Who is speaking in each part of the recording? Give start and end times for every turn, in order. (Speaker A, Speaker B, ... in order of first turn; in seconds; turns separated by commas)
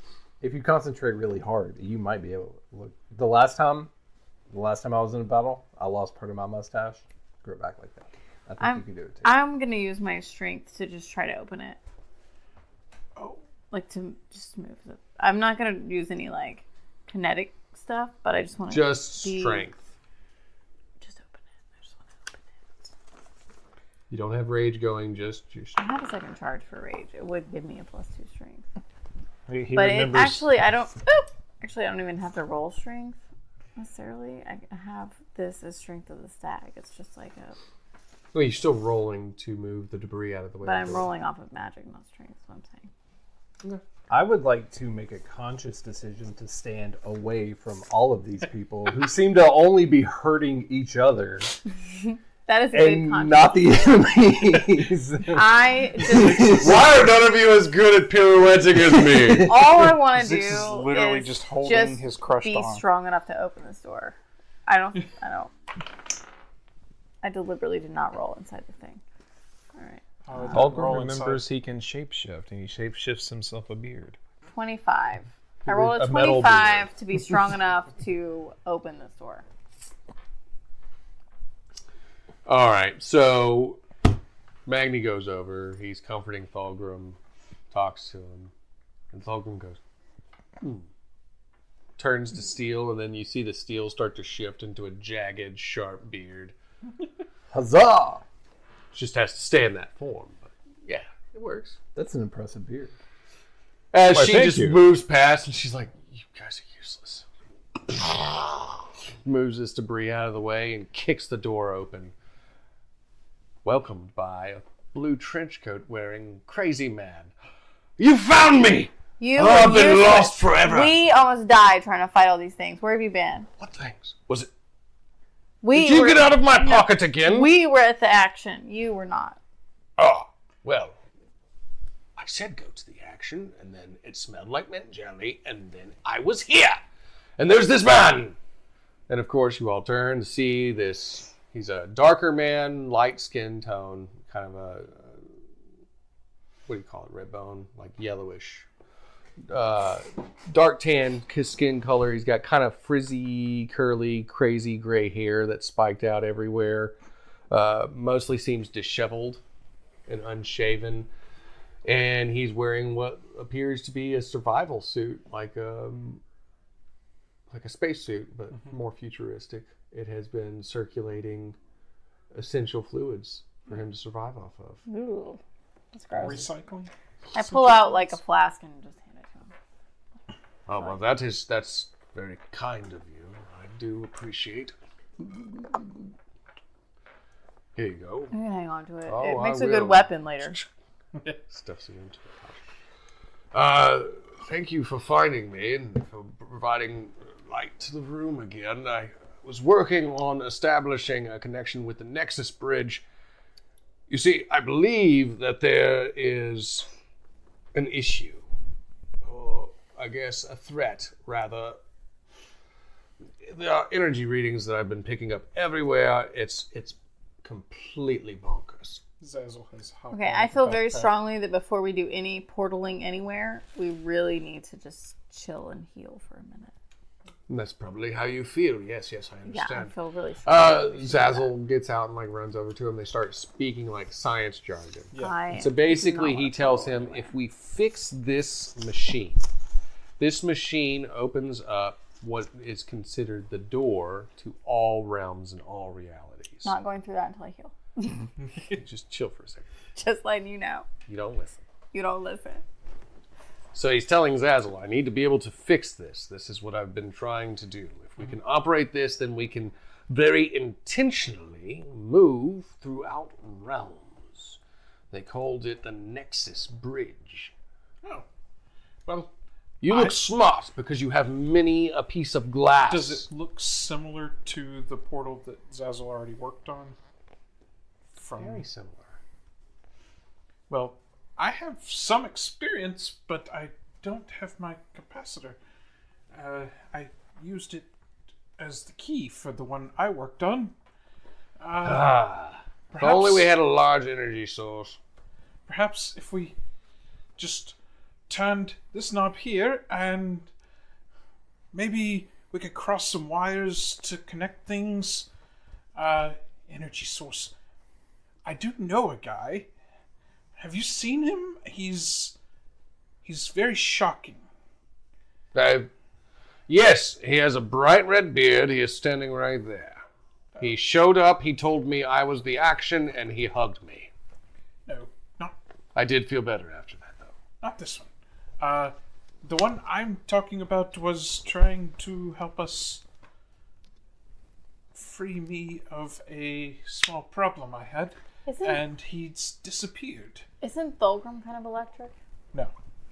Speaker A: 0.4-3.9, Speaker A: 4.5-9.3, Speaker B: 8.6-11.8, Speaker B: 13.7-19.6, Speaker C: 18.7-19.9, Speaker B: 21.0-22.4, Speaker C: 24.1-25.8, Speaker B: 25.8-28.7, Speaker D: 29.5-30.5, Speaker B: 29.7-33.2, Speaker B: 33.8-37.6, Speaker C: 38.3-41.1, Speaker B: 40.6-42.9, Speaker A: 44.1-51.6, Speaker B: 52.5-53.9, Speaker A: 52.7-56.8, Speaker B: 55.3-56.9, Speaker C: 56.4-59.5, Speaker A: 59.1-59.5, Speaker B: 59.5-64.2, Speaker E: 60.1-62.8, Speaker B: 64.7-65.5, Speaker B: 67.2-69.0, Speaker B: 69.7-71.0, Speaker E: 70.2-71.5, Speaker D: 70.5-74.2, Speaker B: 74.5-79.4, Speaker D: 75.7-76.9, Speaker C: 82.5-83.8, Speaker C: 84.7-87.2, Speaker C: 87.7-88.5, Speaker C: 89.1-89.8, Speaker C: 90.6-90.9, Speaker C: 92.0-96.5, Speaker A: 97.5-98.2, Speaker C: 98.9-101.8, Speaker A: 101.9-102.9, Speaker C: 103.9-107.2, Speaker D: 104.1-104.8, Speaker C: 107.8-112.1, Speaker C: 113.6-117.3, Speaker C: 118.0-120.9, Speaker B: 119.2-123.5, Speaker C: 123.6-124.5, Speaker B: 125.6-129.4, Speaker C: 125.7-127.5, Speaker C: 130.0-130.9, Speaker C: 132.2-136.8, Speaker C: 137.4-138.3, Speaker C: 139.1-145.2, Speaker C: 146.7-148.7, Speaker C: 149.5-156.9, Speaker C: 157.5-159.4, Speaker C: 160.1-161.1, Speaker C: 161.8-166.2, Speaker C: 167.5-171.6, Speaker C: 172.3-174.8, Speaker B: 174.9-175.4, Speaker B: 175.9-176.5, Speaker E: 176.2-178.2, Speaker B: 177.3-179.5, Speaker C: 180.7-185.8, Speaker C: 187.7-188.3, Speaker B: 188.3-190.6, Speaker C: 189.1-190.7, Speaker C: 191.2-192.7, Speaker C: 193.5-203.0, Speaker C: 204.1-206.9, Speaker C: 207.7-208.4, Speaker C: 209.2-211.8, Speaker C: 213.4-219.0, Speaker E: 219.2-221.1, Speaker B: 220.1-226.7, Speaker C: 227.5-229.9, Speaker B: 229.5-231.5, Speaker C: 230.4-239.4, Speaker B: 235.2-237.3, Speaker C: 240.2-246.7, Speaker B: 246.6-248.3, Speaker C: 248.7-249.7, Speaker B: 249.9-250.9, Speaker C: 251.1-251.6, Speaker B: 251.9-252.6, Speaker C: 253.7-264.6, Speaker C: 265.1-267.5, Speaker E: 269.1-269.3, Speaker C: 269.8-273.2, Speaker E: 269.9-270.2, Speaker E: 272.9-276.9, Speaker E: 278.1-278.6, Speaker C: 278.4-279.1, Speaker E: 280.7-285.6, Speaker E: 286.3-287.9, Speaker E: 288.6-290.7, Speaker E: 291.6-292.2, Speaker C: 291.8-295.0, Speaker E: 292.9-293.5, Speaker E: 295.7-296.5, Speaker E: 297.4-297.8, Speaker E: 298.3-300.5, Speaker E: 301.7-305.3, Speaker E: 305.9-307.5, Speaker E: 308.4-309.7, Speaker E: 310.6-312.4, Speaker E: 313.2-314.4, Speaker C: 315.5-315.9, Speaker C: 316.7-320.0, Speaker C: 320.6-324.1, Speaker E: 324.9-325.6, Speaker C: 325.9-327.3, Speaker E: 327.6-333.0, Speaker E: 334.9-340.4, Speaker B: 338.4-338.8, Speaker B: 340.6-342.1